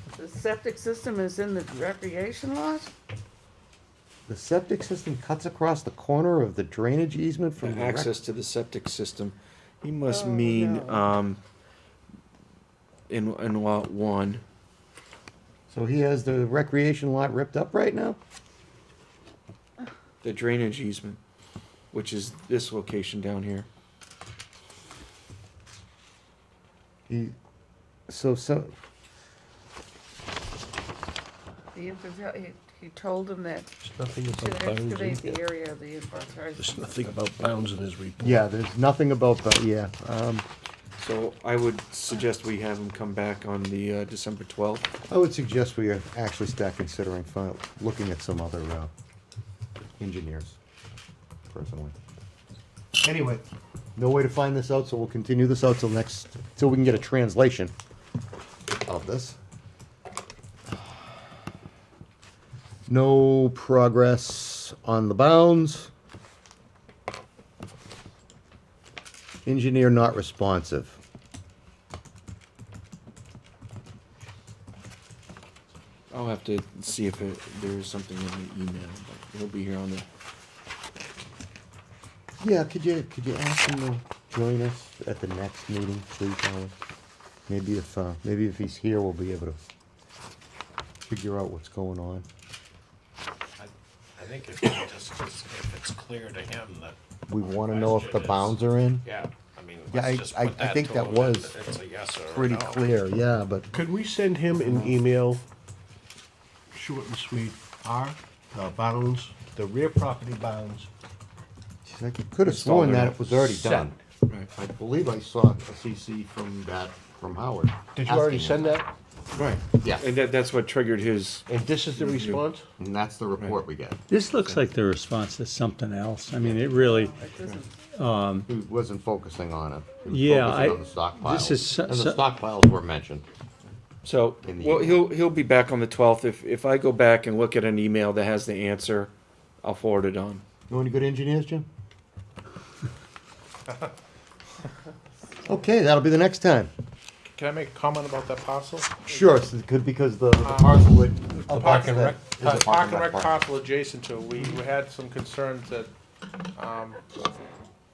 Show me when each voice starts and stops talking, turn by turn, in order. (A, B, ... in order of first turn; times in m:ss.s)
0:00.2-0:02.9 A
0:04.3-0:08.1 B
0:07.6-0:11.4 C
0:10.0-0:11.1 A
0:13.1-0:14.4 C
0:15.7-0:18.2 B
0:20.2-0:21.2 C
0:21.9-0:23.7 C
0:27.1-0:27.3 B
0:28.1-0:28.7 B
0:31.7-0:33.7 A
0:33.8-0:35.4 D
0:34.3-0:37.1 A
0:36.5-0:38.4 D
0:38.2-0:40.4 B
0:41.0-0:44.9 C
0:45.1-0:48.9 B
0:50.0-0:50.6 B
0:51.5-0:51.9 B
0:53.0-0:57.7 B
0:58.8-0:59.4 B
1:02.9-1:05.9 B
1:09.4-1:11.0 B
1:16.1-1:20.1 C
1:22.4-1:26.7 B
1:27.5-1:29.6 B
1:31.1-1:32.2 B
1:33.6-1:36.9 E
1:37.3-1:39.1 B
1:37.4-1:38.5 E
1:39.0-1:42.8 E
1:39.9-1:41.6 B
1:42.2-1:43.7 B
1:43.7-1:45.4 D
1:44.6-1:45.0 B
1:46.7-1:50.9 D
1:51.8-1:54.0 B
1:52.4-1:54.5 C
1:54.5-1:58.8 B
1:58.0-1:58.9 D
1:59.4-2:02.4 C
1:59.8-2:00.0 B
2:01.5-2:02.6 D
2:02.8-2:04.0 B
2:04.1-2:07.1 F
2:06.6-2:07.7 A
2:07.9-2:08.4 F
2:08.5-2:13.2 B
2:10.1-2:12.2 F
2:14.0-2:20.4 C
2:14.4-2:15.0 B
2:20.7-2:21.6 B
2:25.4-2:26.7 B
2:27.3-2:29.3 G
2:29.1-2:33.4 B
2:30.4-2:35.9 G
2:31.5-2:32.6 D
2:36.6-2:37.0 G